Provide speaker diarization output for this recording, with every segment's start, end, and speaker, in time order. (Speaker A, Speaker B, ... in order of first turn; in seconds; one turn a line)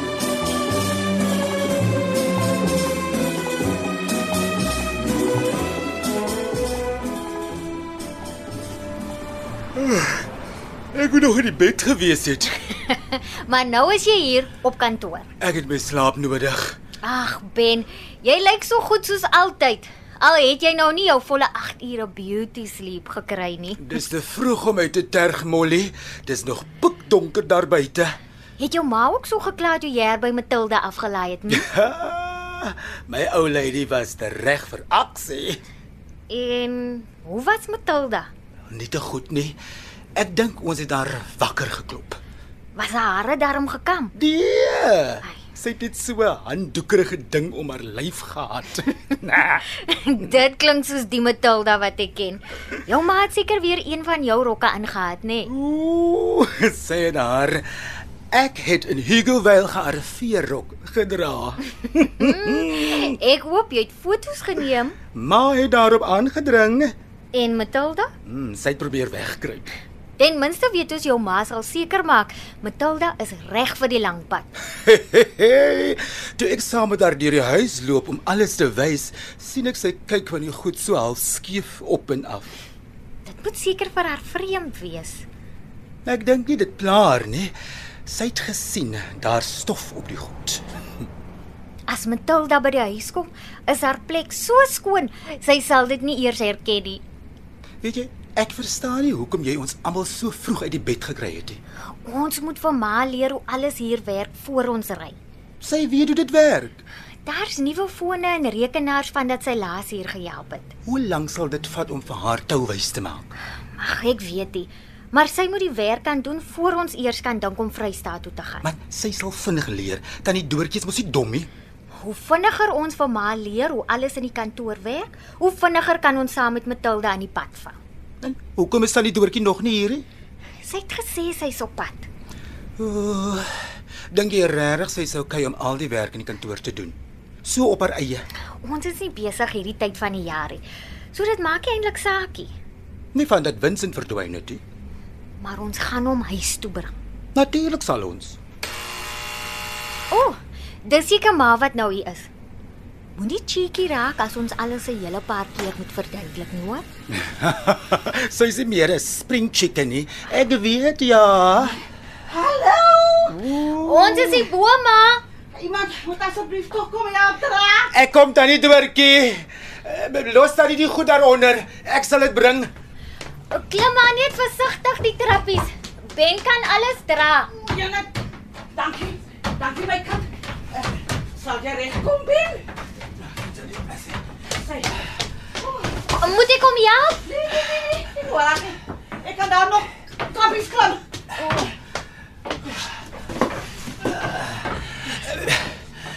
Speaker A: 9.8-10.3
Speaker A: 10.9-12.6
Speaker B: 12.7-15.3
Speaker A: 15.4-16.8
Speaker B: 17.0-24.0
Speaker A: 23.8-28.2
Speaker B: 28.6-31.7
Speaker A: 31.5-35.6
Speaker B: 36.3-38.3
Speaker A: 38.7-39.6
Speaker A: 40.1-42.2
Speaker B: 42.8-44.1
Speaker A: 44.1-49.6
Speaker B: 49.7-55.5
Speaker A: 55.5-57.7
Speaker A: 58.3-63.1
Speaker B: 62.2-65.0
Speaker A: 65.1-66.9
Speaker B: 67.3-68.1
Speaker A: 68.3-69.7
Speaker B: 70.2-74.5
Speaker A: 74.8-82.5
Speaker B: 83.3-85.2
Speaker A: 86.0-87.5
Speaker A: 88.0-90.7
Speaker B: 91.9-97.0
Speaker A: 97.8-101.6
Speaker B: 102.0-105.2
Speaker A: 105.6-106.8
Speaker B: 107.3-110.7
Speaker A: 110.8-113.3
Speaker B: 113.8-118.7
Speaker A: 118.6-121.5
Speaker B: 122.0-127.8
Speaker A: 128.2-130.1
Speaker B: 130.6-132.1
Speaker A: 132.8-133.5
Speaker A: 134.1-138.2
Speaker B: 138.6-140.6
Speaker B: 141.1-142.5
Speaker A: 143.1-144.6
Speaker B: 145.4-146.9
Speaker A: 147.3-148.4
Speaker B: 150.1-152.3
Speaker B: 153.2-156.9
Speaker A: 157.1-161.8
Speaker C: 162.3-163.5
Speaker A: 163.3-164.5
Speaker B: 163.7-165.2
Speaker C: 165.5-167.9
Speaker A: 167.9-172.7
Speaker B: 173.5-177.5
Speaker C: 177.6-178.1
Speaker C: 178.7-182.7
Speaker C: 184.5-185.0
Speaker B: 186.2-187.2
Speaker C: 187.2-191.0